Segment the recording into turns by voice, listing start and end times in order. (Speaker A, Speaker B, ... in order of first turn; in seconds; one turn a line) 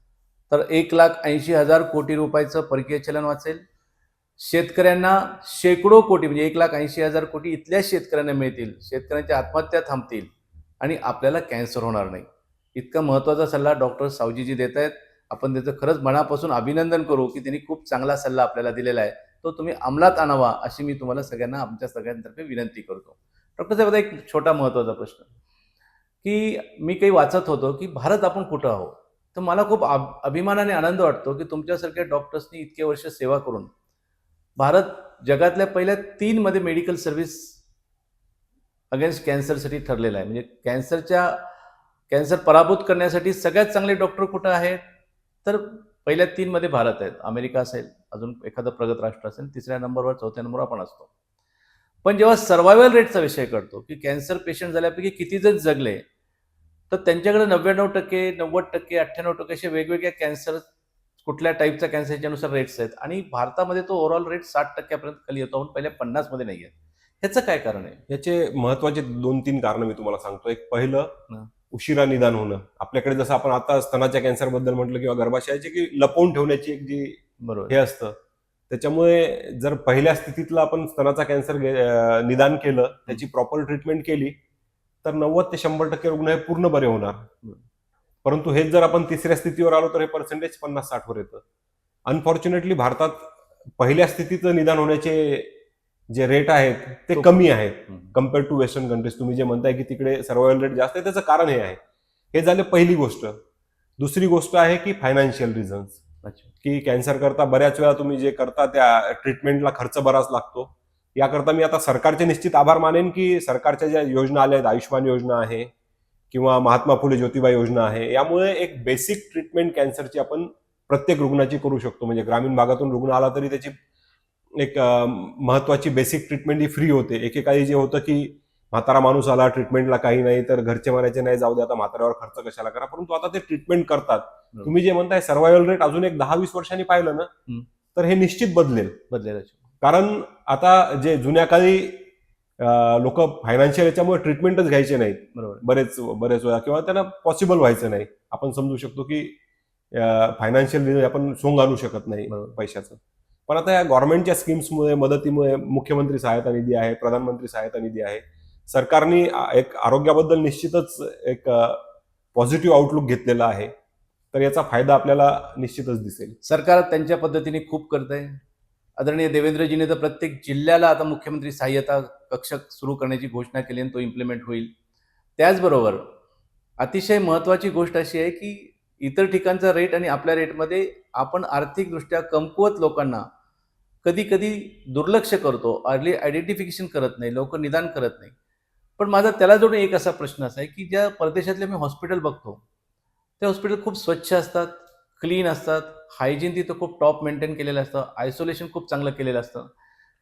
Speaker A: 0.5-3.6
Speaker A: 4.4-25.3
Speaker A: 26.2-33.7
Speaker A: 34.6-37.6
Speaker A: 38.9-41.4
Speaker A: 42.1-44.8
Speaker A: 45.4-51.1
Speaker A: 52.0-56.0
Speaker A: 56.9-60.6
Speaker A: 61.2-68.0
Speaker B: 68.1-71.1
Speaker B: 71.7-78.2
Speaker A: 77.4-77.7
Speaker B: 78.7-84.3
Speaker B: 85.0-87.3
Speaker B: 88.2-91.4
Speaker B: 92.0-95.5
Speaker B: 96.1-101.8
Speaker A: 97.1-98.1
Speaker B: 102.3-103.4
Speaker B: 104.0-106.0
Speaker A: 106.2-106.5
Speaker B: 106.6-115.7
Speaker B: 116.3-123.7
Speaker B: 124.6-137.3
Speaker B: 137.9-139.0
Speaker A: 139.1-139.6
Speaker B: 139.8-142.0
Speaker B: 142.6-149.3
Speaker A: 145.3-145.6
Speaker B: 149.9-161.8
Speaker A: 152.3-152.6
Speaker B: 162.3-163.7
Speaker B: 164.3-166.4
Speaker A: 166.4-168.4
Speaker A: 169.0-174.7
Speaker A: 175.4-176.0
Speaker A: 176.8-183.2
Speaker A: 184.0-188.3
Speaker A: 189.0-192.6
Speaker A: 193.4-199.7